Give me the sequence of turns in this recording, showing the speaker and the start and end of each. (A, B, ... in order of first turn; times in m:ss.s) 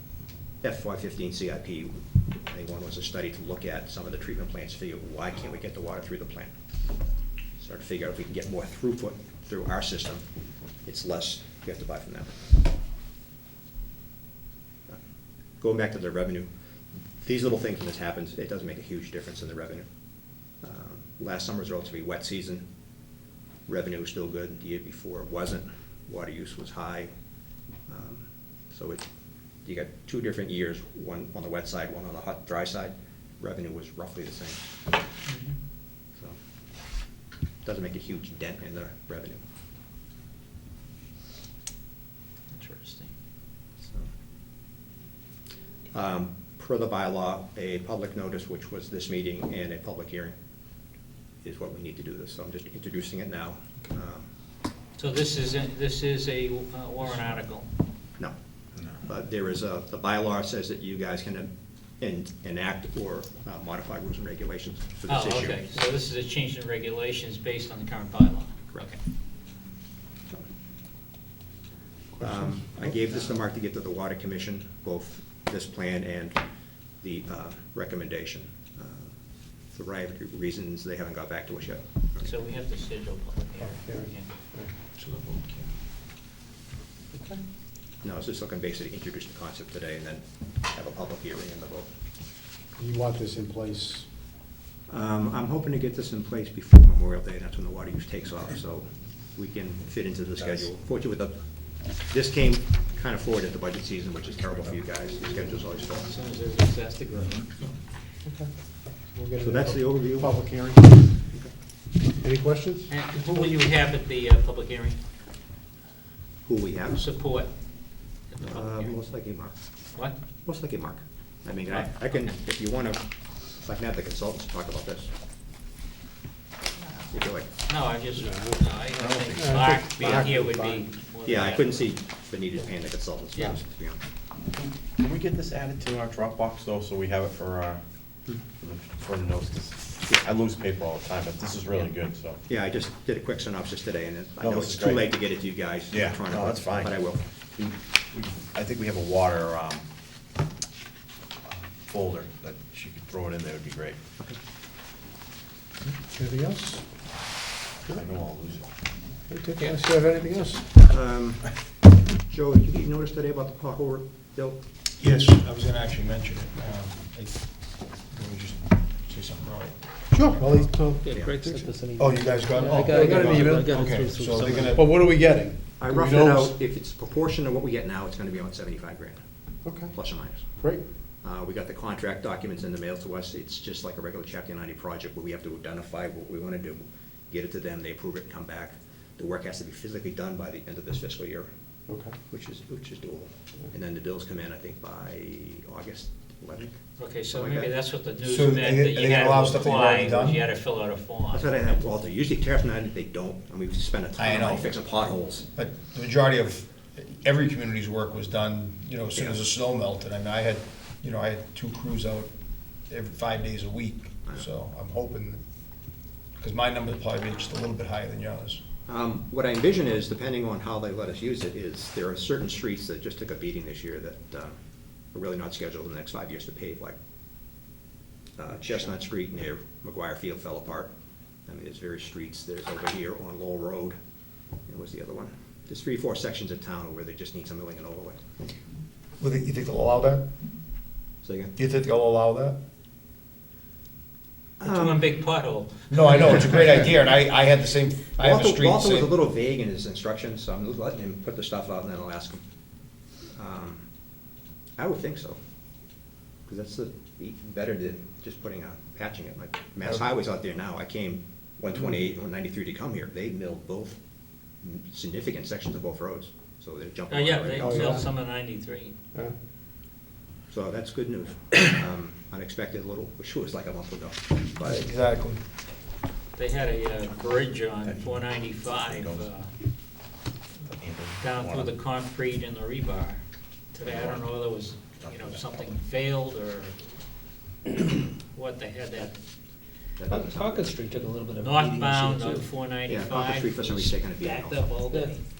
0:00.6-0:06.5 A
0:07.6-0:10.2 A
0:10.8-0:12.4 A
0:15.6-0:16.5 A
0:17.2-0:19.9 A
0:20.6-0:22.6 A
0:23.7-0:27.1 A
0:27.9-0:29.0 A
0:29.6-0:34.7 A
0:35.2-0:35.6 B
0:37.6-0:39.4 A
0:42.5-0:43.1 B
0:43.8-0:44.1 A
0:45.9-0:50.3 A
0:51.4-0:54.3 A
0:55.0-0:57.7 B
0:59.0-1:05.8 A
1:05.1-1:09.0 B
1:12.2-1:16.4 A
1:17.0-1:19.1 A
1:19.7-1:22.3 A
1:22.2-1:24.3 B
1:23.6-1:24.7 C
1:25.0-1:25.6 D
1:27.1-1:27.4 C
1:28.0-1:31.9 A
1:32.8-1:34.1 C
1:34.9-1:46.1 A
1:45.8-1:47.7 B
1:49.1-1:51.0 C
1:49.4-1:50.4 A
1:52.2-1:52.9 C
1:52.9-1:55.0 B
1:56.4-1:57.0 A
1:57.0-1:59.0 B
1:58.4-1:59.5 A
2:00.4-2:05.1 A
2:06.8-2:11.9 B
2:07.1-2:07.5 A
2:08.2-2:08.8 C
2:09.0-2:09.4 E
2:09.3-2:10.8 C
2:11.2-2:14.0 A
2:14.8-2:17.8 E
2:18.6-2:22.4 E
2:22.5-2:27.2 A
2:24.4-2:25.2 E
2:25.9-2:27.0 E
2:27.6-2:29.8 E
2:31.4-2:34.0 E
2:36.0-2:36.8 C
2:37.9-2:38.7 E
2:39.3-2:40.8 C
2:40.8-2:41.5 A
2:42.2-2:44.6 A
2:45.0-2:50.5 D
2:50.1-2:52.0 C
2:51.0-2:54.7 F
2:51.1-2:51.4 A
2:52.0-2:54.8 D
2:52.9-2:53.6 C
2:54.4-2:56.5 C
2:55.8-2:59.2 A
2:59.6-3:00.8 C
2:59.8-3:00.5 A
3:01.2-3:11.5 A
3:11.9-3:12.1 C
3:12.3-3:16.8 A
3:17.0-3:21.6 B
3:17.3-3:17.7 A
3:18.2-3:20.4 D
3:21.3-3:25.4 A
3:24.2-3:24.8 D
3:25.5-3:35.4 D
3:29.1-3:29.4 A
3:36.4-3:38.6 D
3:38.9-3:44.6 A
3:45.1-3:47.0 A
3:48.4-3:50.9 A
3:51.5-3:54.0 A
3:54.7-3:58.2 A
3:59.2-4:00.2 D
4:01.2-4:01.5 A
4:01.6-4:02.6 D
4:04.6-4:05.0 A
4:04.6-4:06.5 B
4:05.9-4:09.1 D
4:08.2-4:12.4 A
4:13.4-4:13.8 A
4:14.8-4:15.4 A
4:16.4-4:24.0 A
4:24.6-4:28.0 A
4:27.1-4:28.9 B
4:27.6-4:28.0 C
4:30.5-4:34.8 A
4:34.6-4:35.4 D
4:36.4-4:39.5 B
4:37.8-4:39.3 E
4:40.7-4:41.7 E
4:41.2-4:43.2 B
4:43.7-4:46.8 B
4:43.8-4:44.3 E
4:45.0-4:45.7 E
4:47.8-4:49.1 B
4:50.0-4:50.8 A
4:50.1-4:52.5 F
4:51.4-4:55.2 B
4:52.8-4:54.8 A